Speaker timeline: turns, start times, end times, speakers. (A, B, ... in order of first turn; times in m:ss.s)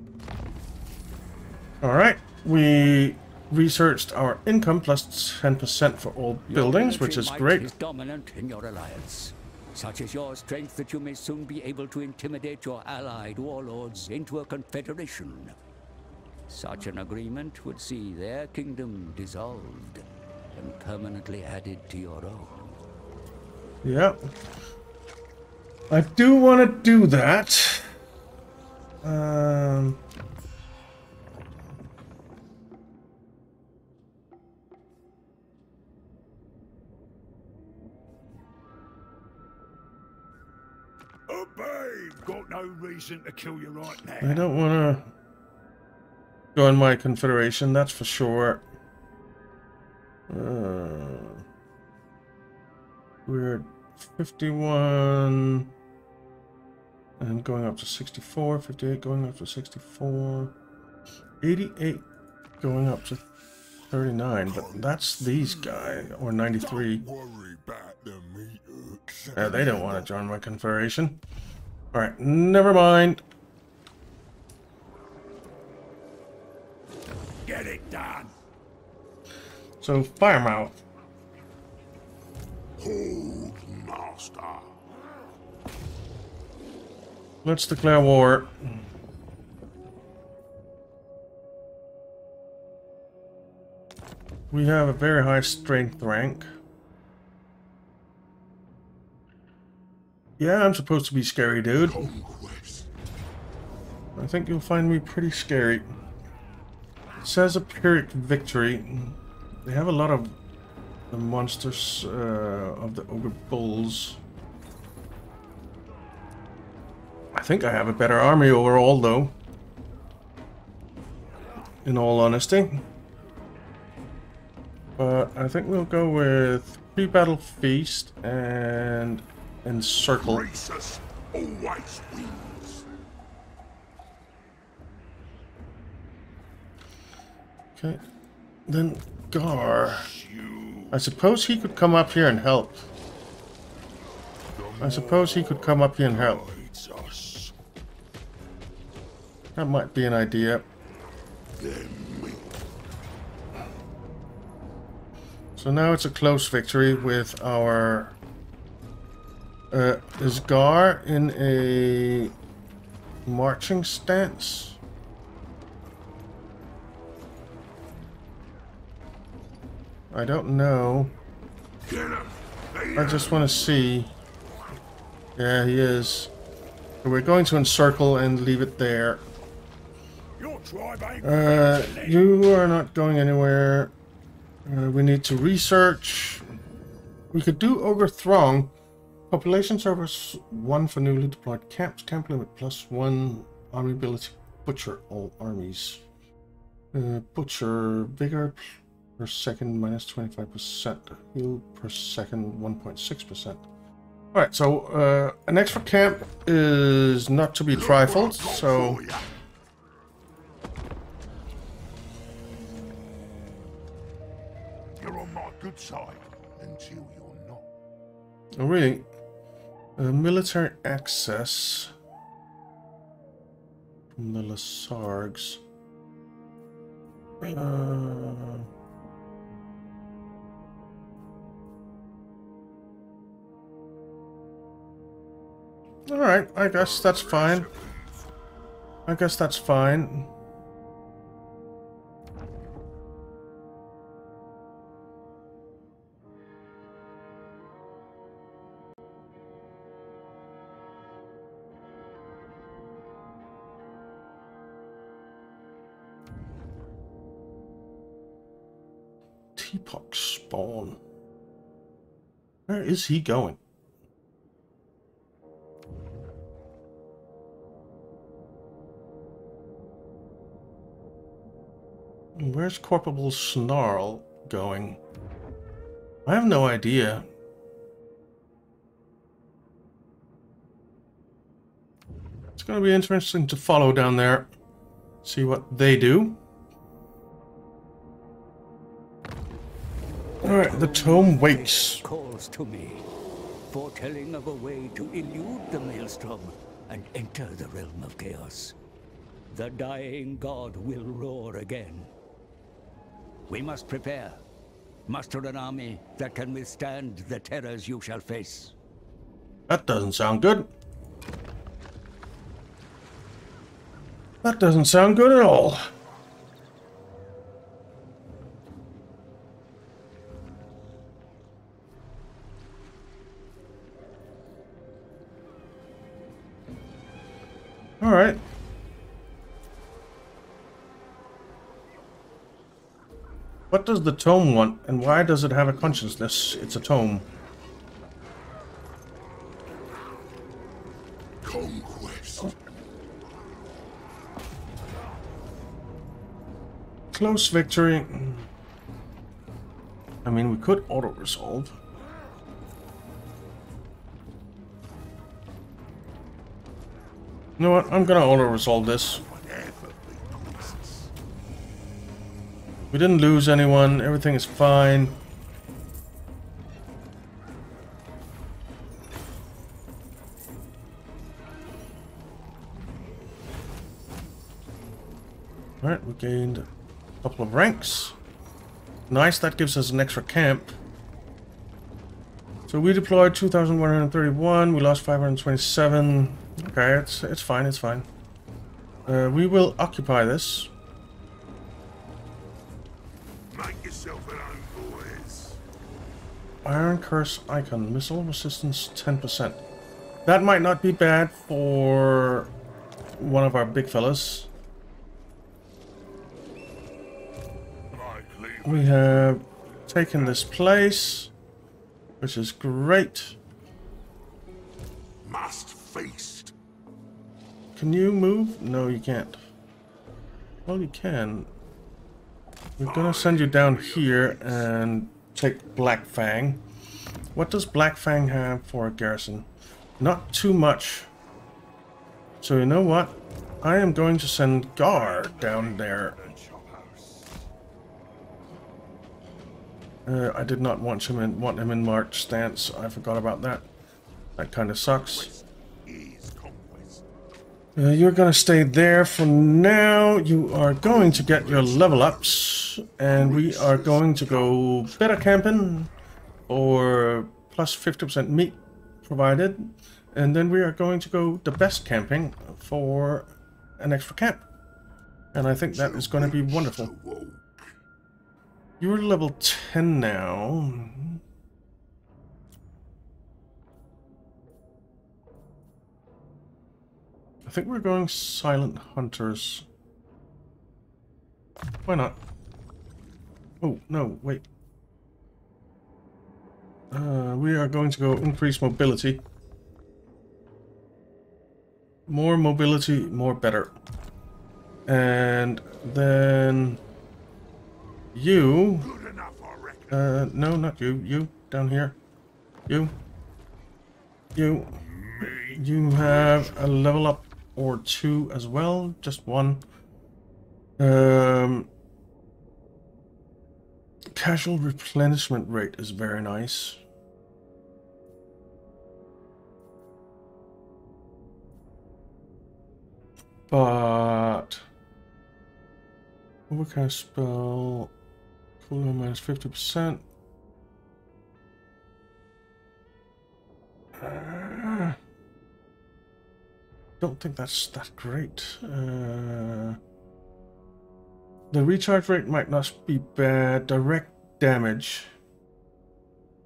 0:01.8-0:07.7 A
0:06.5-0:15.5 B
0:16.5-0:22.7 B
0:23.8-0:24.3 A
0:25.9-0:27.9 A
0:29.0-0:30.0 A
0:41.3-0:44.4 C
0:44.2-0:45.1 A
0:46.5-0:48.6 A
0:50.3-0:51.4 A
0:53.2-0:55.7 A
0:57.2-1:00.5 A
1:01.4-1:02.0 A
1:02.6-1:03.2 A
1:03.8-1:07.0 A
1:04.4-1:10.1 C
1:09.3-1:11.2 A
1:11.9-1:13.2 A
1:17.4-1:18.3 C
1:19.8-1:20.8 A
1:22.8-1:24.8 C
1:27.4-1:28.8 A
1:34.5-1:36.5 A
1:40.4-1:42.1 A
1:41.8-1:42.9 C
1:44.2-1:45.9 A
1:47.2-1:50.4 A
1:51.1-1:54.2 A
1:57.3-1:59.3 A
2:01.8-2:02.8 A
2:05.0-2:10.5 A
2:10.1-2:12.8 C
2:17.8-2:18.0 A
2:18.7-2:20.1 A
2:19.4-2:21.0 C
2:20.9-2:22.9 A
2:24.5-2:27.5 C
2:24.8-2:26.5 A
2:29.5-2:30.6 A
2:31.6-2:32.6 C
2:35.6-2:38.2 A
2:39.7-2:42.3 A
2:43.2-2:44.8 A
2:50.1-2:51.2 A
2:51.8-2:53.7 C
2:53.0-2:54.1 A
2:55.4-2:56.3 A
2:57.0-2:59.2 A
3:00.4-3:02.2 C
3:01.2-3:03.9 A
3:04.6-3:06.4 A
3:07.3-3:08.7 A
3:09.3-3:16.0 A
3:16.9-3:23.6 A
3:24.3-3:29.0 A
3:27.7-3:29.3 C
3:35.0-3:37.7 C
3:38.6-3:39.1 A
3:40.0-3:41.9 A
3:44.1-3:45.6 A
3:47.4-3:48.7 A
3:56.1-3:57.7 A
3:56.6-3:58.3 C
3:59.1-4:00.3 A
4:19.6-4:21.0 A
4:22.7-4:23.6 A
4:32.4-4:35.0 A
4:36.2-4:37.3 A
4:42.6-4:44.5 A
4:45.2-4:46.4 A
4:50.4-4:52.0 A
4:50.4-4:53.0 B
4:53.7-4:58.7 B
4:59.5-5:02.1 B
5:03.5-5:04.4 B
5:05.1-5:08.7 B
5:09.7-5:10.7 A
5:14.4-5:15.8 A
5:28.0-5:28.4 A
5:33.7-5:37.3 A
5:41.4-5:42.5 C
5:47.1-5:48.5 A
5:50.2-5:51.8 A
5:57.6-5:59.2 A
5:57.8-6:01.1 C
6:02.9-6:05.2 A
6:15.8-6:16.7 A
6:17.2-6:18.2 A
6:19.1-6:20.8 A
6:22.7-6:28.1 A
6:29.0-6:30.7 A
6:33.5-6:35.6 C
6:36.6-6:39.6 A
6:40.2-6:42.5 A
6:43.2-6:44.5 A
6:47.9-6:50.6 C
6:48.6-6:51.3 A
6:52.2-6:53.4 A
6:55.2-6:56.5 C
6:57.7-6:59.4 A
7:00.6-7:01.5 A
7:02.8-7:04.7 C
7:02.8-7:06.6 A
7:07.3-7:09.5 A
7:10.0-7:11.1 A
7:12.4-7:16.2 A
7:14.8-7:17.5 C
7:20.0-7:23.7 A
7:24.4-7:25.3 A
7:24.8-7:27.0 C
7:27.8-7:35.9 A
7:30.8-7:32.5 C
7:33.0-7:35.1 C
7:36.5-7:44.4 A
7:45.3-7:46.9 A
7:45.7-7:47.7 C
7:48.8-7:51.2 A
7:57.4-7:59.6 A
8:01.8-8:02.2 A
8:03.6-8:04.4 A
8:06.9-8:09.2 A
8:12.1-8:13.7 A
8:14.9-8:16.8 A
8:18.1-8:18.9 A
8:18.8-8:20.2 C
8:19.9-8:22.0 A
8:22.7-8:23.0 A
8:24.3-8:29.6 A
8:24.8-8:26.8 C
8:30.8-8:31.7 A
8:34.1-8:36.8 A
8:43.5-8:44.6 A
8:46.5-8:47.9 A
8:48.6-8:50.0 A
8:54.0-8:55.0 A
8:57.0-8:59.8 A
9:01.5-9:05.1 A